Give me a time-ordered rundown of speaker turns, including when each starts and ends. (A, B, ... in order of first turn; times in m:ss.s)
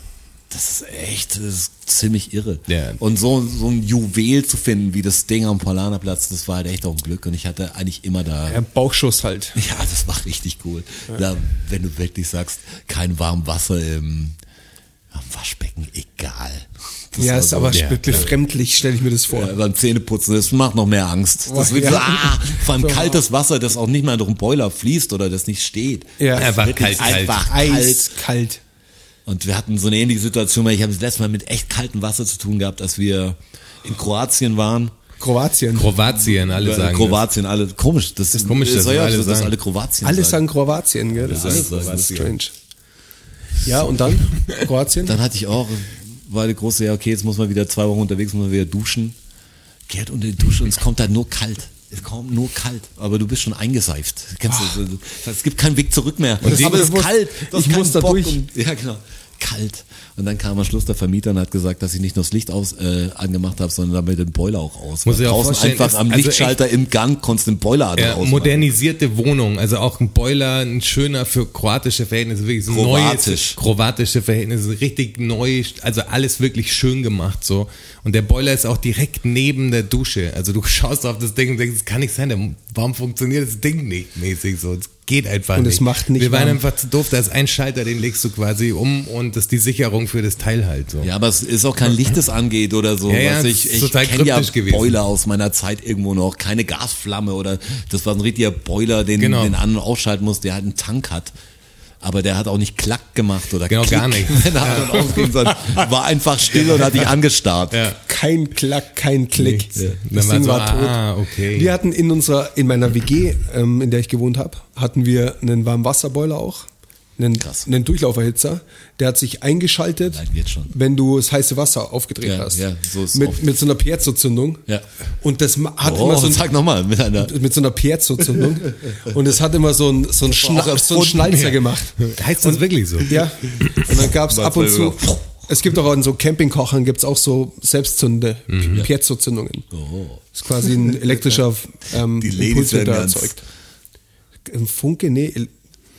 0:00.5-0:08.6 A
0:02.7-0:03.0 B
0:08.5-0:09.6 C
0:09.6-0:14.4 A
0:15.1-0:18.3 A
0:17.2-0:19.5 C
0:17.7-0:18.3 B
0:19.3-0:28.1 A
0:21.5-0:23.2 C
0:26.2-0:28.6 C
0:26.4-0:27.5 B
0:29.3-0:35.0 A
0:35.2-0:35.9 C
0:35.7-0:37.2 B
0:36.5-0:40.4 A
0:38.4-0:39.5 B
0:40.0-0:42.5 C
0:41.2-0:42.4 B
0:41.3-0:42.2 A
0:43.6-0:45.2 C
0:45.0-0:49.2 A
0:49.9-1:08.7 A
0:56.4-0:58.5 C
0:56.4-0:56.9 B
1:05.0-1:06.6 B
1:08.0-1:31.1 B
1:12.7-1:13.6 A
1:25.6-1:26.6 C
1:31.0-1:41.3 A
1:33.1-1:35.0 B
1:39.2-1:39.6 B
1:42.0-1:47.9 A
1:43.7-1:45.2 B
1:47.7-1:48.0 B
1:48.1-1:51.0 C
1:49.4-1:51.7 B
1:51.5-2:04.6 C
1:57.4-1:57.7 A
2:00.0-2:00.7 A
2:02.2-2:03.5 A
2:05.2-2:06.5 C
2:05.8-2:07.4 A
2:07.2-2:19.7 C
2:08.3-2:09.1 A
2:10.2-2:11.4 A
2:11.3-2:14.0 B
2:14.2-2:15.5 A
2:18.5-2:18.9 B
2:19.7-2:20.9 A
2:20.3-2:23.4 C
2:22.0-2:23.3 A
2:24.5-2:25.5 C